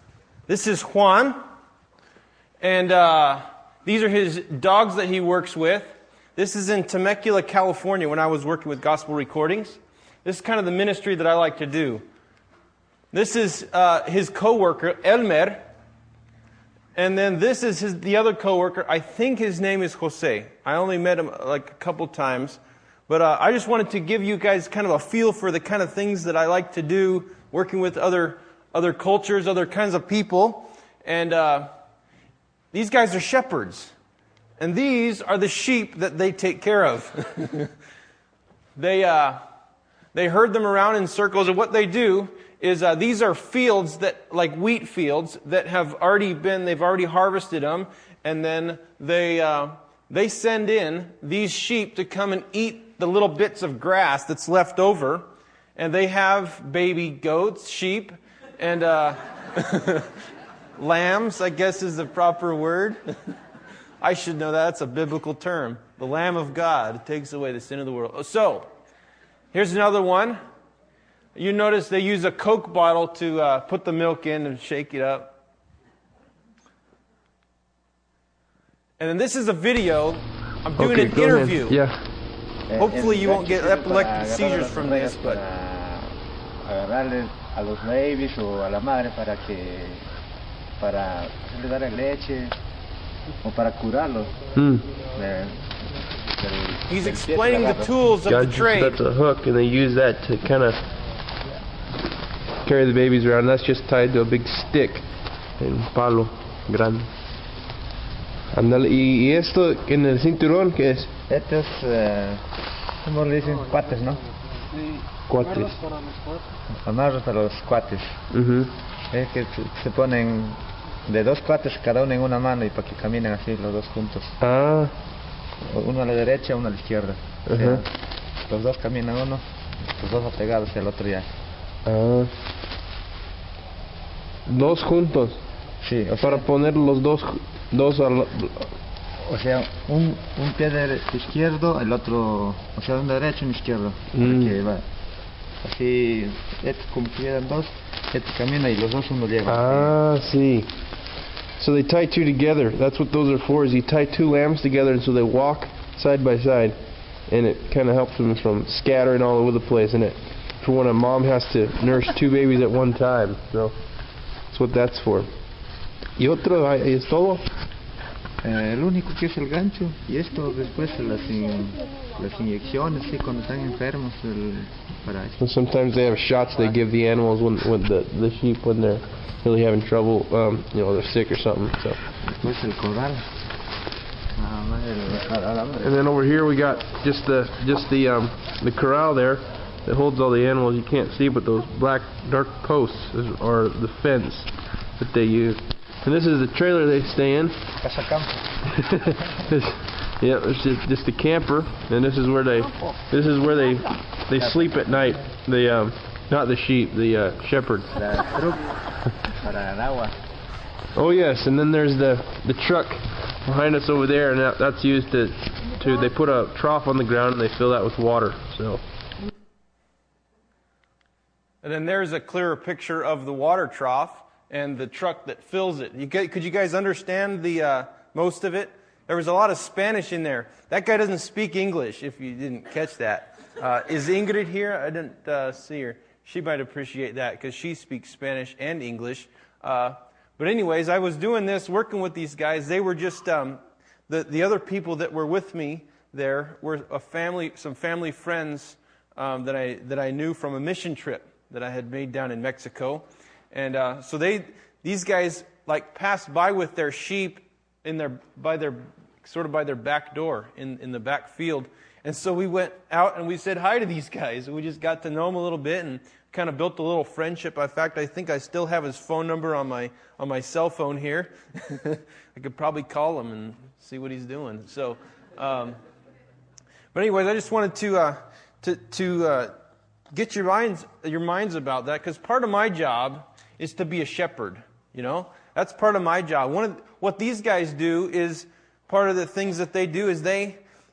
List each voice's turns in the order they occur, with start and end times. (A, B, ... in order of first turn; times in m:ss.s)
0:00.5-0:01.4 A
0:02.6-0:12.0 A
0:13.1-0:15.6 A
0:17.0-0:31.7 A
0:32.7-0:33.9 A
0:34.6-0:37.7 A
0:38.8-0:39.4 A
0:40.1-1:00.1 A
1:00.8-1:03.0 A
1:04.0-1:08.7 A
1:09.5-1:10.4 A
1:11.3-1:15.3 A
1:19.0-1:21.8 A
1:20.8-1:22.0 B
1:22.7-1:30.1 C
1:22.8-1:25.4 A
1:30.8-1:32.6 C
1:33.4-1:34.4 C
1:34.6-1:34.9 B
1:35.1-1:37.9 C
1:36.9-1:39.0 A
1:38.2-1:40.8 B
1:42.6-1:45.0 B
1:45.6-1:47.1 B
1:48.5-1:51.1 B
1:51.3-1:52.4 C
1:53.0-1:54.2 C
1:55.3-1:55.8 B
1:56.8-1:58.2 C
1:58.3-1:58.7 B
1:59.1-2:04.4 C
2:04.4-2:04.9 B
2:05.6-2:07.9 C
2:07.5-2:07.8 B
2:08.5-2:09.4 C
2:10.0-2:11.3 C
2:11.8-2:12.3 B
2:14.5-2:15.4 B
2:15.8-2:16.5 C
2:16.2-2:18.7 B
2:19.2-2:24.8 C
2:24.1-2:24.6 B
2:25.6-2:29.9 C
2:29.5-2:30.7 B
2:31.6-2:36.8 B
2:37.3-2:43.7 B
2:44.5-2:45.3 B
2:46.2-2:47.4 B
2:48.4-2:55.4 C
2:55.4-3:02.0 B
3:02.4-3:03.3 C
3:04.4-3:06.0 C
3:05.8-3:17.6 B
3:17.8-3:18.4 C
3:18.9-3:27.9 B
3:27.9-3:30.2 C
3:30.9-3:38.8 B
3:41.6-4:35.8 A
4:36.9-4:39.5 A
4:40.1-4:50.6 A